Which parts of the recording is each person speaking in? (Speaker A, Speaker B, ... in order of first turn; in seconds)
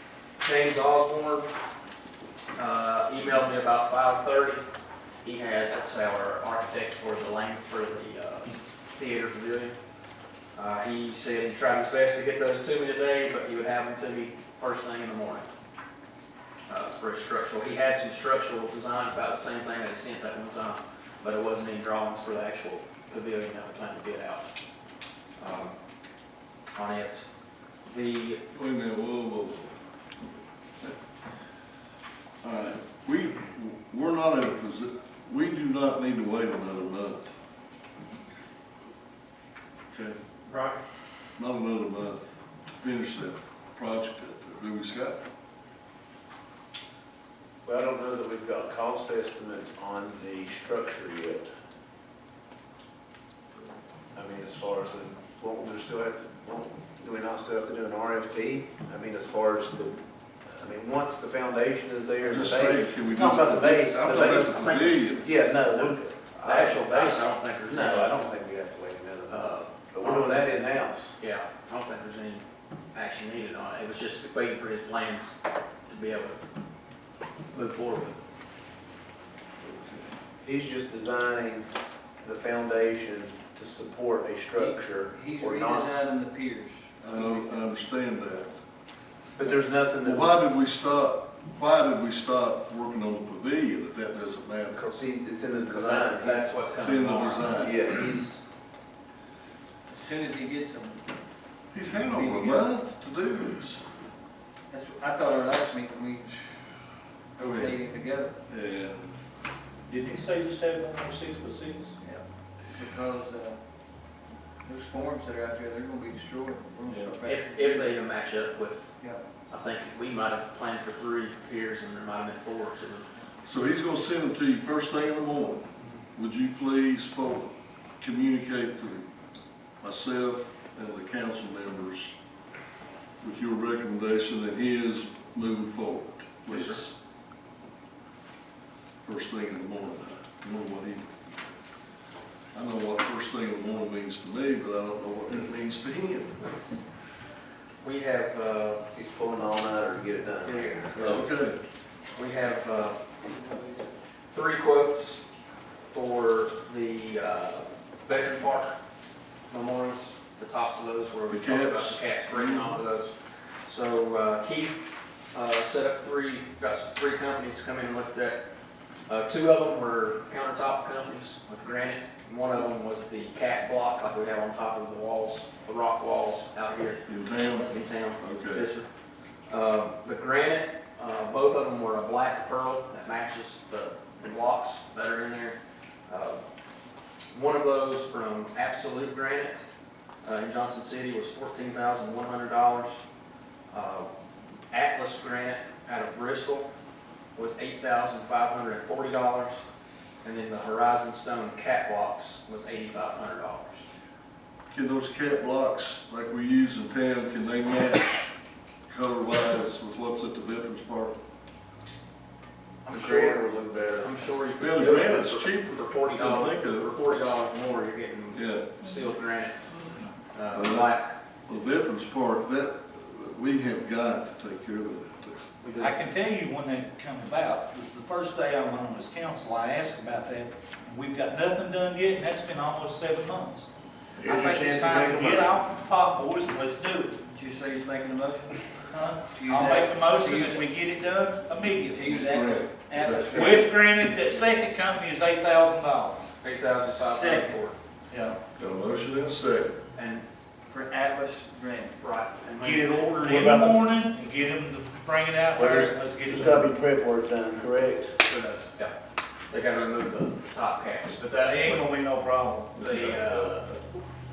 Speaker A: 0.4-1.5, 2.6-4.6, 5.2-9.8, 10.6-15.5, 16.7-24.5, 25.4-25.8, 26.8-27.3, 27.9-28.4, 40.5-40.8, 64.1-65.0, 65.7-68.2, 69.3-70.5, 71.2-76.4, 77.5-78.2, 95.7-97.6, 117.2-118.9, 119.5-123.1, 136.5-136.8, 147.8-148.8, 152.2-153.0, 154.3-155.2, 155.9-158.8, 159.5-163.2, 163.7-168.4, 169.1-178.9, 179.5-186.4, 187.3-189.7, 190.2-193.0, 193.7-194.1, 194.7-196.7, 197.3-199.6, 200.2-203.8, 212.8-213.5, 214.0-219.6, 220.3-221.1, 225.6-225.9, 246.4-247.8, 249.9-250.3, 252.0-253.7, 258.2-258.9, 259.5-261.9, 262.8-263.7
Speaker B: 28.5-29.8, 32.4-37.3, 39.9-40.2, 41.4-45.2, 62.2-65.3, 79.6-80.1, 87.0-88.6, 90.0-94.8, 96.8-97.9, 101.7-103.8, 107.4-107.8, 108.5-109.1, 123.5-129.1, 129.8-132.2, 133.2-137.0, 139.0-141.1, 142.5-146.4, 150.9-151.6, 161.3-162.8, 177.1-178.7, 204.7-208.3, 208.9-211.2, 214.6-216.9, 218.3-218.7, 220.5-220.9, 221.5-225.5, 242.1-243.6, 248.6-249.7, 262.8-263.8
Speaker C: 47.6-51.5, 54.1-71.1, 80.4-81.7, 82.2-86.0, 87.1-87.5, 89.4-90.3, 94.7-96.5, 97.6-98.4, 148.9-150.9, 212.9-214.1, 234.2-235.6, 255.6-258.2
Speaker D: 84.5-86.9, 99.9-101.0, 102.0-102.7, 104.7-106.4, 107.4-108.3, 112.8-113.6, 114.7-118.0, 150.4-151.0, 153.2-153.9, 237.3-238.7, 239.3-240.6, 241.9-243.7, 246.9-247.6, 248.1-248.4, 250.7-252.0
Speaker E: 109.9-111.9, 225.8-233.7, 234.2-237.2, 238.9-242.1, 243.3-246.3, 252.6-256.7, 261.4-262.7